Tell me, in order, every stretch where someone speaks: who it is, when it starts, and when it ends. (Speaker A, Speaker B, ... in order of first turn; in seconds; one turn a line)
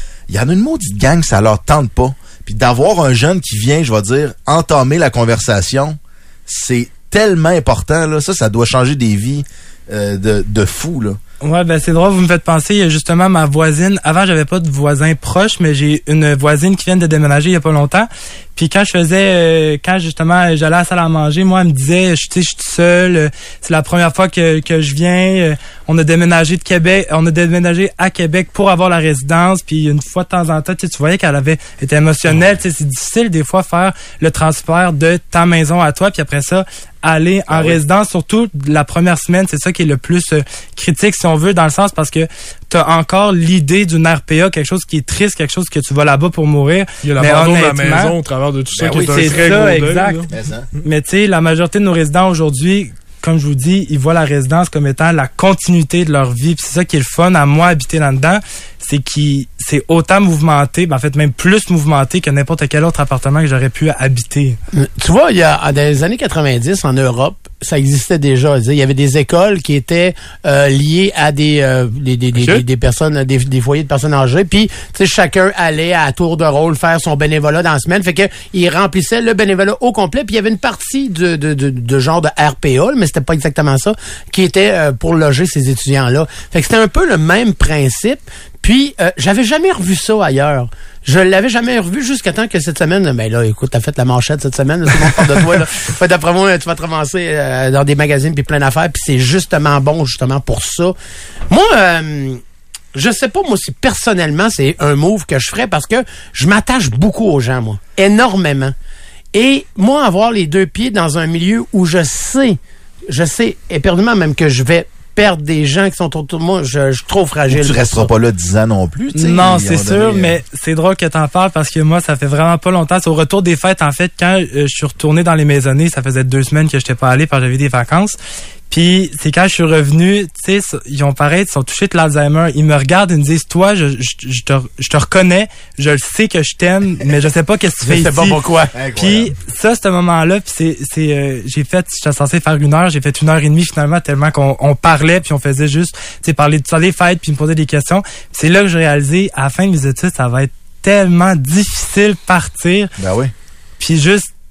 Speaker A: 0.3-11.2
Speaker B: 11.4-48.1
Speaker C: 47.0-50.3
Speaker A: 48.7-49.6
Speaker B: 48.8-50.2
Speaker A: 50.3-50.7
Speaker B: 50.8-64.6
Speaker D: 64.8-100.9
Speaker C: 72.4-72.6
Speaker D: 101.5-102.4
Speaker D: 102.9-108.8
Speaker D: 109.3-118.1
Speaker A: 117.5-120.4
Speaker B: 119.1-128.2
Speaker B: 128.7-138.4
Speaker D: 137.8-138.8
Speaker A: 138.7-139.3
Speaker B: 139.0-152.9
Speaker A: 153.0-153.3
Speaker B: 153.8-154.3